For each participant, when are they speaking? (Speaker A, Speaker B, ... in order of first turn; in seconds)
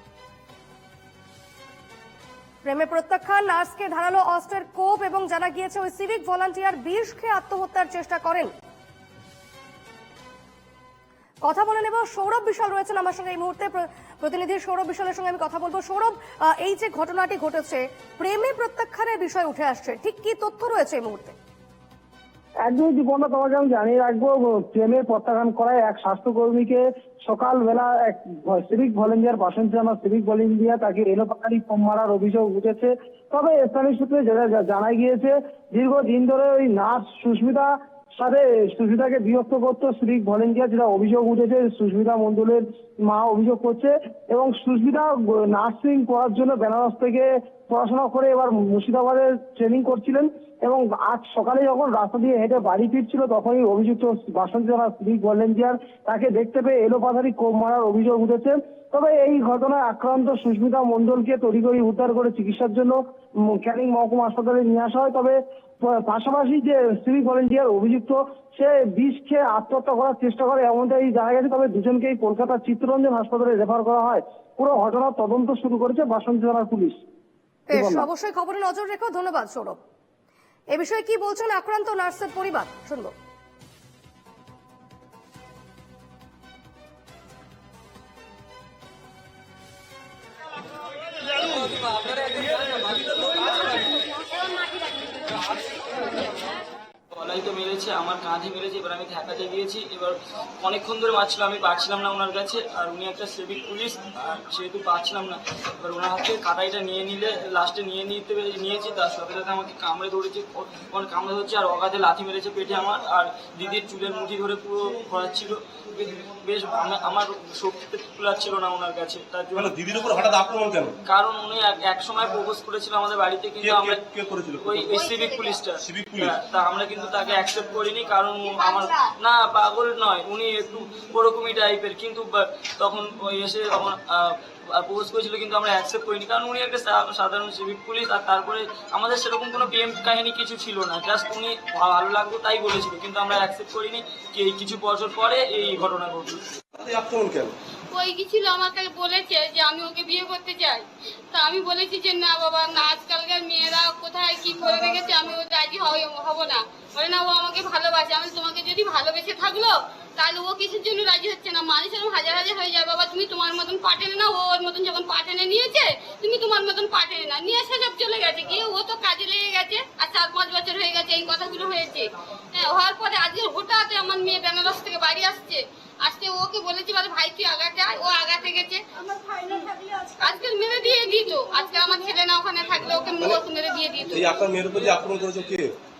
Speaker A: 2.6-8.5, 11.4-21.3, 77.7-79.8, 80.7-83.1
Speaker B: 22.6-77.0, 77.7-78.0
Speaker C: 91.3-94.1, 95.3-96.3, 97.1-119.8, 121.0-124.0, 124.6-146.4
Speaker D: 119.5-121.0, 123.6-124.9, 125.8-126.3, 146.7-147.5, 184.1-185.7
Speaker E: 147.9-178.8, 179.4-184.4